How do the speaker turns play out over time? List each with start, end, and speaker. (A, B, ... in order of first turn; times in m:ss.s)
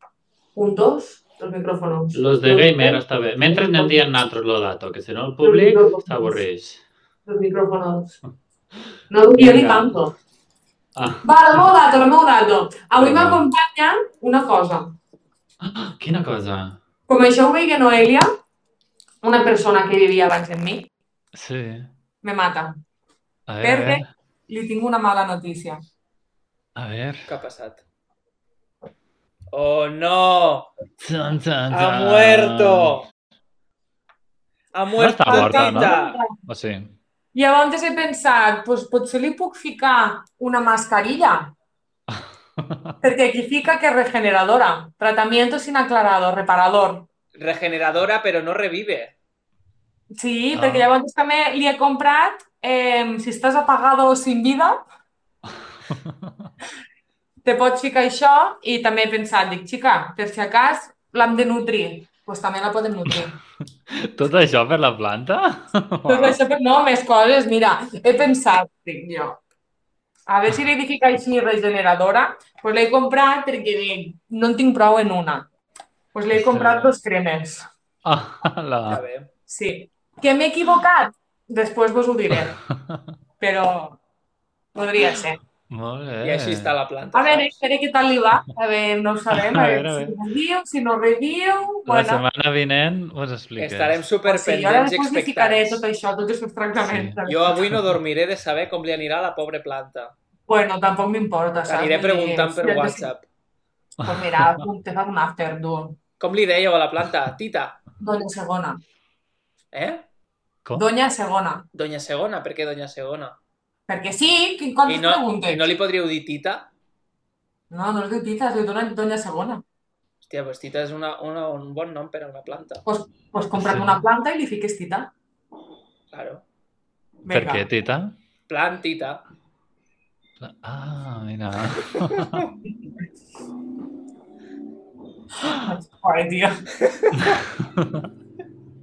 0:00.6-0:04.0 A
0:02.1-0:06.8 B
0:05.4-0:06.4 A
0:07.3-0:08.2 A
0:09.1-0:10.1 A
0:09.4-0:10.0 B
0:10.9-0:11.2 B
0:11.2-0:15.0 A
0:13.0-0:13.4 B
0:15.6-0:16.8 B
0:17.1-0:18.3 A
0:19.2-0:20.9 A
0:21.3-0:21.9 B
0:22.2-0:22.8 A
0:23.5-0:24.1 B
0:23.6-0:25.8 A
0:26.8-0:27.3 B
0:27.3-0:27.8 C
0:29.5-0:30.7 C
0:31.0-0:33.0 B
0:31.7-0:33.0 C
0:34.7-0:36.2 C
0:35.0-0:36.9 B
0:35.3-0:36.3 A
0:37.3-0:41.5 A
0:42.1-0:42.9 B
0:43.0-0:47.1 A
0:47.3-0:49.1 C
0:50.1-0:54.8 A
0:50.6-0:50.9 B
0:55.9-0:56.4 B
0:57.4-1:03.4 A
1:03.9-1:06.4 B
1:06.1-1:09.4 A
1:10.3-1:15.5 A
1:16.1-1:17.7 A
1:16.3-1:16.9 B
1:18.0-1:19.0 B
1:18.9-1:19.3 C
1:19.5-1:22.6 A
1:22.3-1:23.0 B
1:23.4-1:24.0 A
1:24.7-1:25.4 A
1:25.7-1:26.8 B
1:26.2-1:27.6 C
1:27.1-1:32.2 A
1:29.3-1:30.1 B
1:31.9-1:34.0 B
1:33.6-1:35.8 C
1:34.2-1:37.4 A
1:36.8-1:37.8 B
1:37.2-1:40.1 C
1:40.5-1:43.0 A
1:41.6-1:43.2 C
1:44.0-1:44.6 B
1:44.0-1:46.0 A
1:46.2-1:47.8 C
1:48.0-1:48.8 A
1:49.7-1:50.0 C
1:50.8-1:51.6 A
1:51.7-1:53.4 C
1:53.9-1:55.7 A
1:54.9-1:56.7 C
1:57.7-1:59.6 A
2:00.2-2:02.8 C
2:02.8-2:05.1 A
2:03.6-2:04.0 B
2:06.1-2:06.4 C
2:07.2-2:07.6 A
2:07.3-2:08.2 B
2:08.5-2:09.2 C
2:10.4-2:12.4 B
2:15.4-2:16.6 A
2:16.8-2:17.3 C
2:17.2-2:18.0 B